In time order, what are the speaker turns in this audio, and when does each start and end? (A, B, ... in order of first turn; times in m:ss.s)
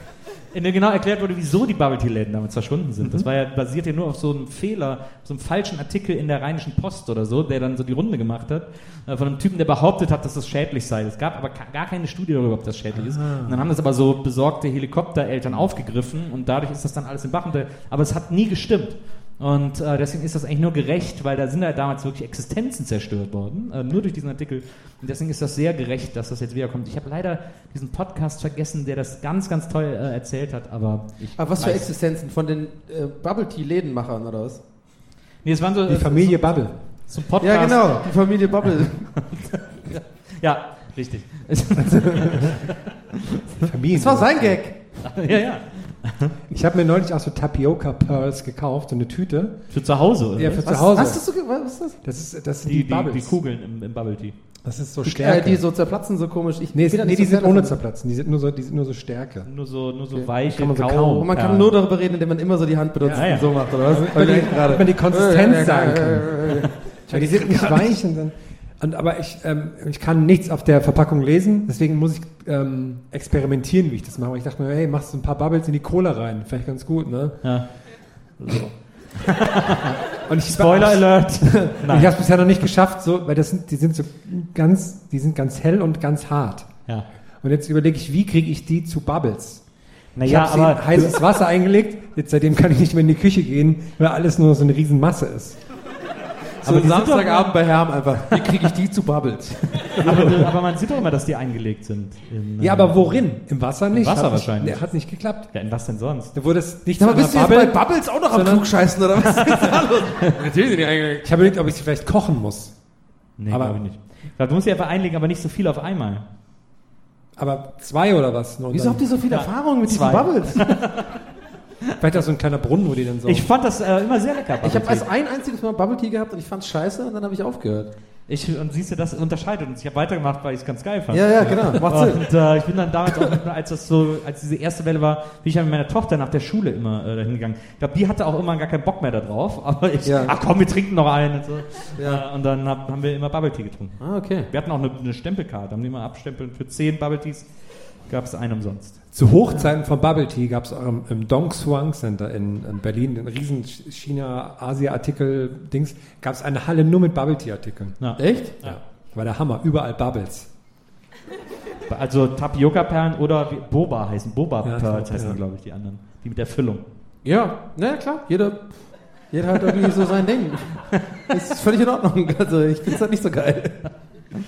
0:00.5-0:31.9 A
0:03.0-0:03.3 B
0:12.9-0:13.7 B
0:31.4-0:34.6 C
0:35.4-0:38.0 A
0:35.9-0:36.8 B
0:37.4-0:39.2 C
0:39.3-0:42.7 A
0:41.8-0:42.6 B
0:43.6-0:44.6 B
0:43.9-0:44.8 C
0:45.0-0:46.3 A
0:46.5-0:49.7 B
0:49.7-0:51.1 A
0:50.4-0:51.2 B
0:50.6-0:52.0 C
0:52.0-0:53.4 B
0:52.7-0:54.4 A
0:54.6-0:55.6 B
0:55.0-0:57.8 C
0:56.7-0:59.5 B
0:59.5-1:01.7 A
1:00.5-1:01.1 B
1:01.0-1:07.9 C
1:03.0-1:17.5 B
1:03.1-1:03.5 A
1:18.4-1:22.1 A
1:20.3-1:26.7 B
1:27.4-1:29.6 B
1:30.2-1:31.2 A
1:30.2-1:35.6 B
1:36.6-1:40.5 C
1:36.6-1:37.6 A
1:40.0-1:43.3 A
1:42.6-1:45.5 B
1:43.9-1:46.3 A
1:46.3-1:48.9 B
1:47.0-1:51.2 C
1:51.2-1:52.7 B
1:53.4-1:56.2 A
1:53.5-1:53.8 B
1:57.4-1:59.0 B
1:58.7-2:00.8 C
1:59.3-2:01.1 A
2:02.0-2:03.5 B
2:03.3-2:05.1 A
2:04.6-2:07.9 C
2:08.3-2:27.5 A
2:11.1-2:12.3 C
2:20.0-2:20.4 C
2:22.0-2:22.2 C
2:24.0-2:24.5 C
2:28.1-2:29.0 A
2:29.1-2:38.0 B
2:38.0-2:38.8 A
2:38.2-2:38.6 C
2:38.6-2:40.5 B
2:41.9-2:46.8 A
2:44.6-2:45.4 B
2:47.2-2:48.8 C
2:49.3-2:53.8 C